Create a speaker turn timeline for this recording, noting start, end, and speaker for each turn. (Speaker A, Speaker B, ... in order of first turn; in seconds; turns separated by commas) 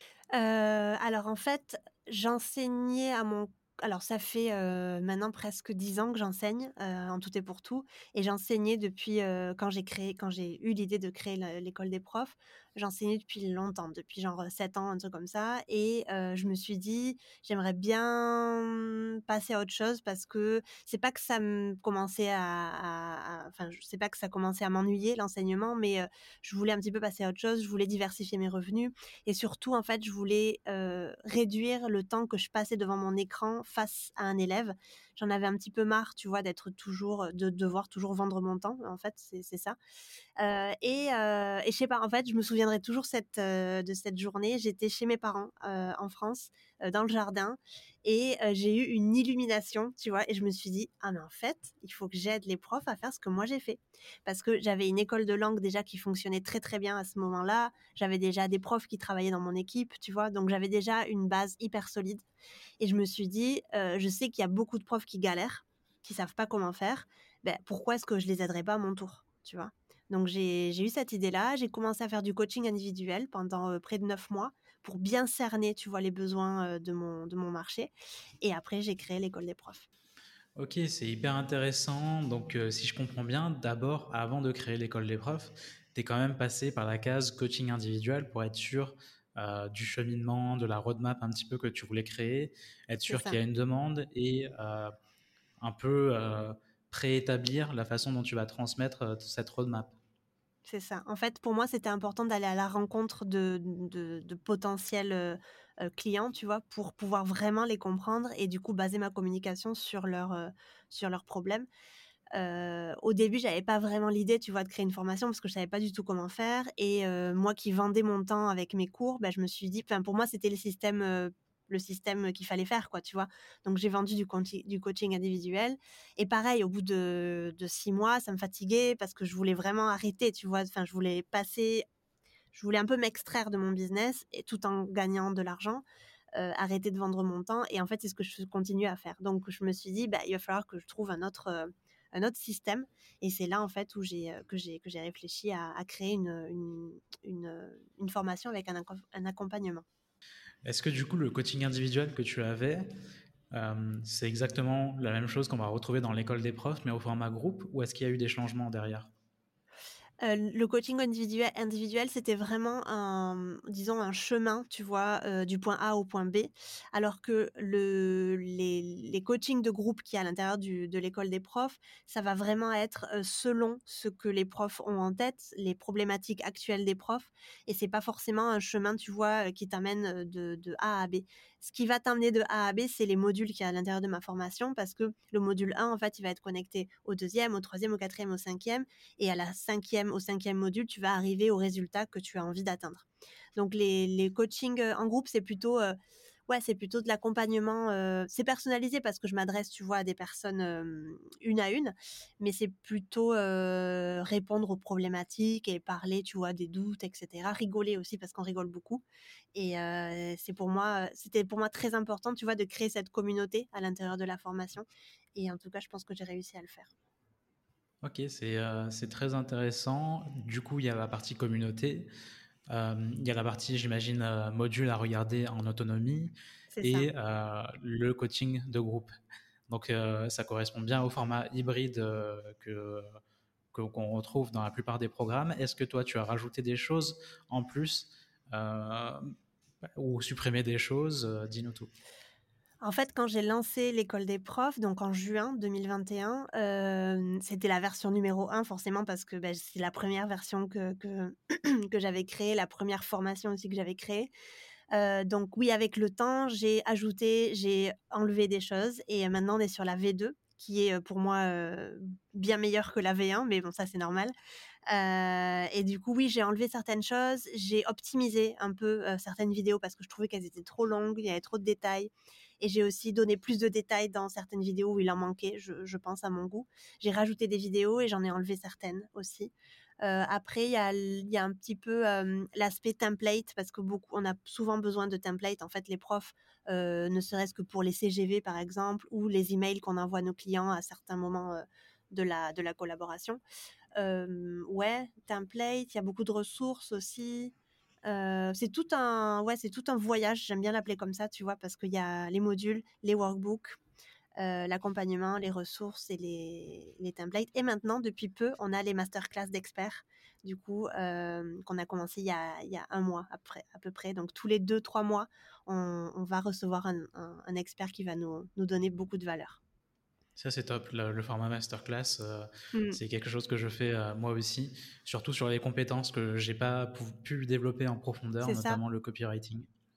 Speaker A: 0.3-39.8, Speaker A: 40.4-62.2, Speaker A: 62.8-79.9, Speaker B: 80.5-94.9, Speaker A: 93.1-93.4, Speaker B: 95.6-99.9, Speaker A: 100.7-111.7, Speaker A: 112.3-131.8, Speaker A: 132.5-135.8, Speaker A: 136.3-149.8, Speaker B: 150.6-152.9, Speaker B: 153.5-159.1, Speaker A: 160.2-196.0, Speaker A: 196.5-209.0, Speaker A: 209.5-216.9, Speaker B: 218.0-222.1, Speaker B: 222.7-229.1, Speaker A: 226.7-227.1, Speaker B: 229.7-233.1, Speaker B: 233.7-239.3, Speaker B: 239.8-241.9, Speaker A: 242.8-254.3, Speaker A: 254.9-264.3, Speaker A: 264.9-293.4, Speaker A: 294.0-297.5, Speaker A: 298.1-303.8, Speaker A: 304.4-319.6, Speaker B: 320.4-329.7, Speaker A: 322.7-323.0, Speaker A: 328.4-328.8